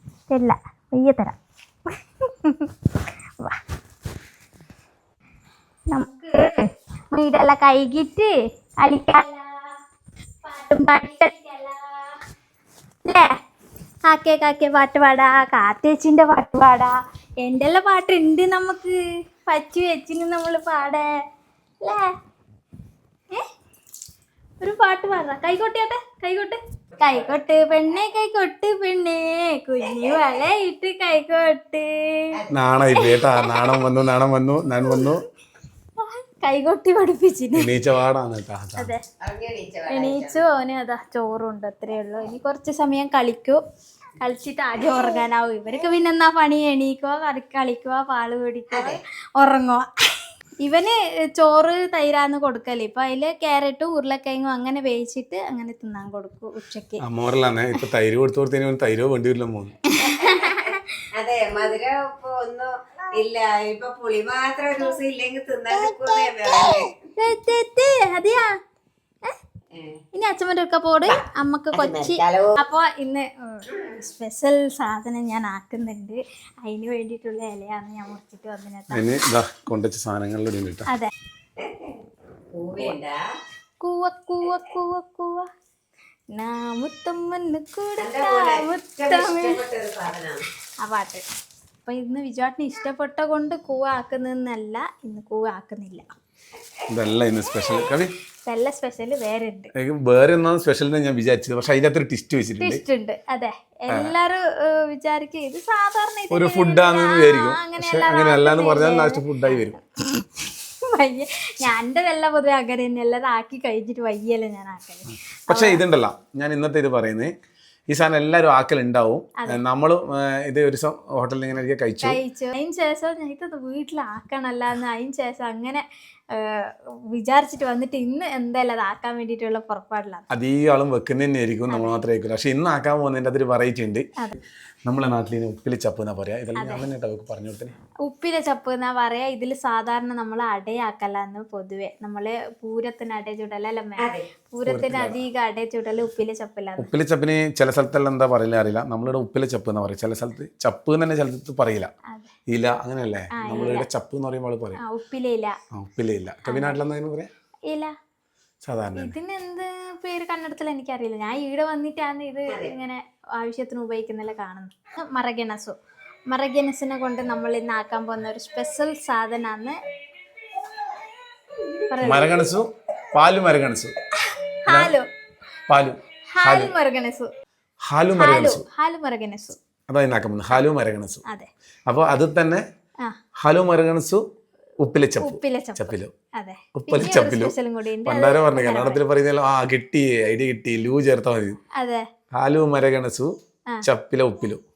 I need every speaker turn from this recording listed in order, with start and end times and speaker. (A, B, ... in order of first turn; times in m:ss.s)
0:00.3-0:01.3 A
0:01.9-0:02.7 A
0:05.9-0:09.7 A
0:10.4-0:12.2 A
0:13.0-0:13.4 A
0:14.0-0:21.1 A
0:21.8-0:22.1 A
0:24.6-0:32.3 A
0:32.5-0:35.2 B
0:32.9-0:33.8 A
0:36.0-0:37.7 A
0:37.6-0:38.9 B
0:38.8-0:39.0 A
0:39.2-0:40.4 C
0:39.9-0:43.6 A
0:44.2-0:57.0 A
0:48.7-0:49.0 C
0:57.0-0:59.7 B
0:59.9-1:01.0 A
1:00.0-1:06.9 C
1:05.7-1:08.5 A
1:09.7-1:10.0 C
1:10.1-1:19.0 A
1:11.1-1:12.6 C
1:18.9-1:20.9 B
1:21.6-1:22.0 C
1:22.5-1:23.2 C
1:23.8-1:25.5 A
1:26.3-1:29.6 A
1:28.0-1:30.4 C
1:30.8-1:31.2 A
1:31.8-1:36.0 A
1:36.9-1:38.1 B
1:37.5-1:39.7 A
1:39.7-1:42.8 B
1:42.6-1:55.8 A
1:46.3-1:49.8 B
1:55.5-1:57.3 B
1:57.9-2:02.2 B
2:02.0-2:05.8 A
2:06.3-2:10.2 A
2:10.3-2:14.1 B
2:11.7-2:12.0 A
2:14.8-2:17.7 B
2:16.6-2:16.8 A
2:18.0-2:26.9 A
2:24.0-2:24.2 C
2:24.6-2:25.2 B
2:26.8-2:31.9 B
2:32.5-2:34.8 B
2:33.3-2:33.9 A
2:34.8-2:35.6 A
2:35.7-2:37.3 B
2:36.5-2:36.8 A
2:38.6-2:39.1 B
2:39.0-2:45.7 A
2:46.3-2:49.8 A
2:51.9-2:52.3 A
2:52.0-2:53.9 B
2:54.2-2:55.1 A
2:54.7-2:55.0 B
2:55.7-2:56.7 B
2:56.3-2:57.3 A
2:57.8-2:58.6 B
2:58.2-2:59.6 A
2:59.9-3:01.2 B
3:01.9-3:02.6 B
3:03.4-3:04.2 B
3:04.8-3:06.1 B
3:05.2-3:09.0 A
3:06.7-3:11.6 B
3:11.8-3:12.0 A
3:12.4-3:13.3 B
3:13.8-3:14.6 B